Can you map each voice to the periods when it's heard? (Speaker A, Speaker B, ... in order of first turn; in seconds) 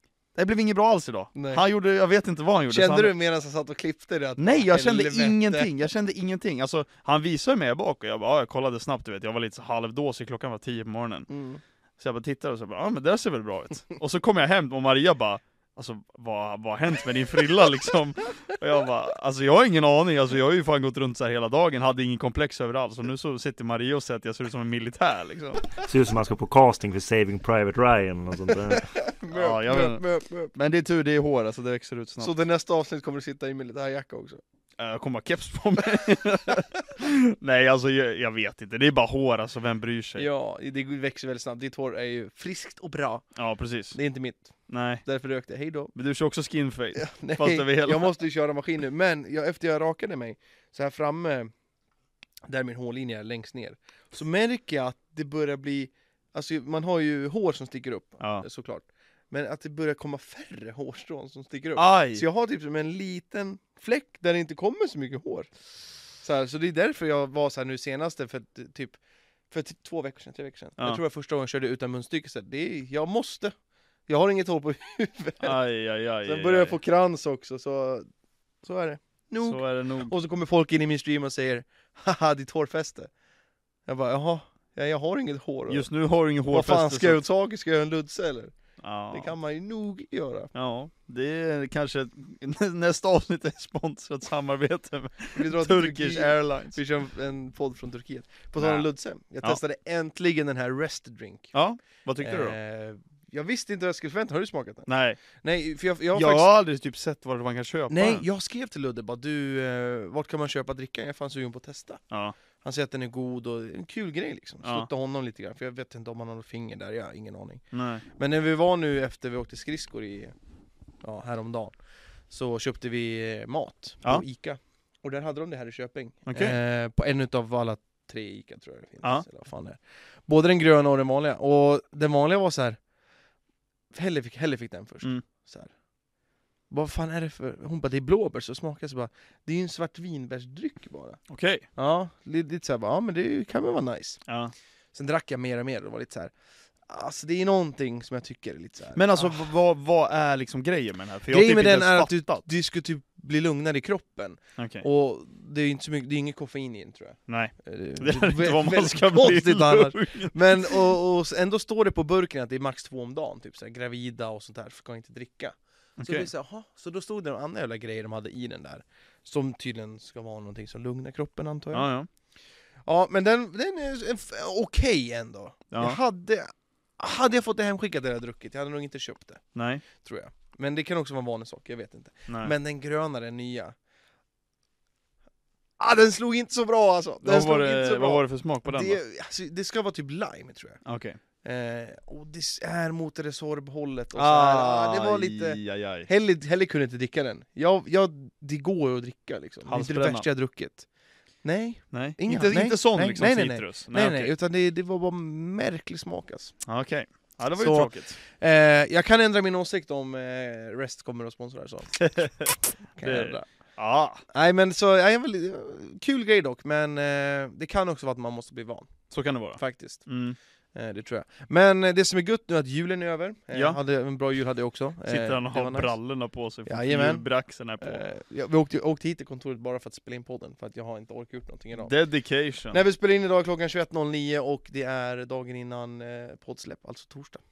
Speaker A: 0.3-3.1, 4.4-11.3, 12.0-25.7, 29.3-32.3, 34.8-40.3, 43.4-44.0, 44.7-45.0, 45.9-48.1, 58.2-58.4, 61.8-62.2, 75.4-76.8, 79.4-80.1, 85.7-87.2, 88.8-89.3, 90.5-96.8, 98.6-98.9, 101.5-102.6, 104.9-105.2, 106.1-108.2, 112.1-112.3, 114.6-114.9, 117.7-118.0, 126.2-126.6, 141.3-141.7, 144.3-144.5, 148.9-152.4, 154.6-154.9, 157.3-160.9, 166.0-166.3, 171.7-172.1, 175.7-176.0, 179.5-179.8, 182.3-182.5, 187.2-189.0, 190.8-191.2, 194.1-196.1, 199.7-200.3, 201.9-204.3, 206.7-208.2, 212.0-214.2, 219.1-220.4, 223.5-223.8, 225.1-228.0, 231.8-232.8
Speaker B: 1.3-1.6, 2.7-5.7, 11.3-11.6, 28.7-30.5, 32.2-34.4, 40.2-43.2, 43.9-45.9, 46.9-51.5, 52.4-65.5, 66.2-69.0, 69.5-73.5, 74.1-75.5, 76.2-78.1, 78.6-83.1, 83.9-85.9, 86.5-88.5, 89.1-90.5, 95.3-101.5, 102.2-106.5, 107.9-112.0, 112.6-120.3, 121.0-121.7, 122.3-132.8, 133.9-135.7, 136.7-141.2, 141.7-144.2, 144.9-146.3, 146.8-149.5, 151.3-171.9, 172.8-183.7, 185.8-190.8, 191.4-200.8, 201.4-206.5, 207.6-213.4, 214.3-219.0, 219.6-220.1, 220.7-225.9, 226.7-227.3, 227.8-231.9, 232.7-237.4
Speaker C: 25.8-28.9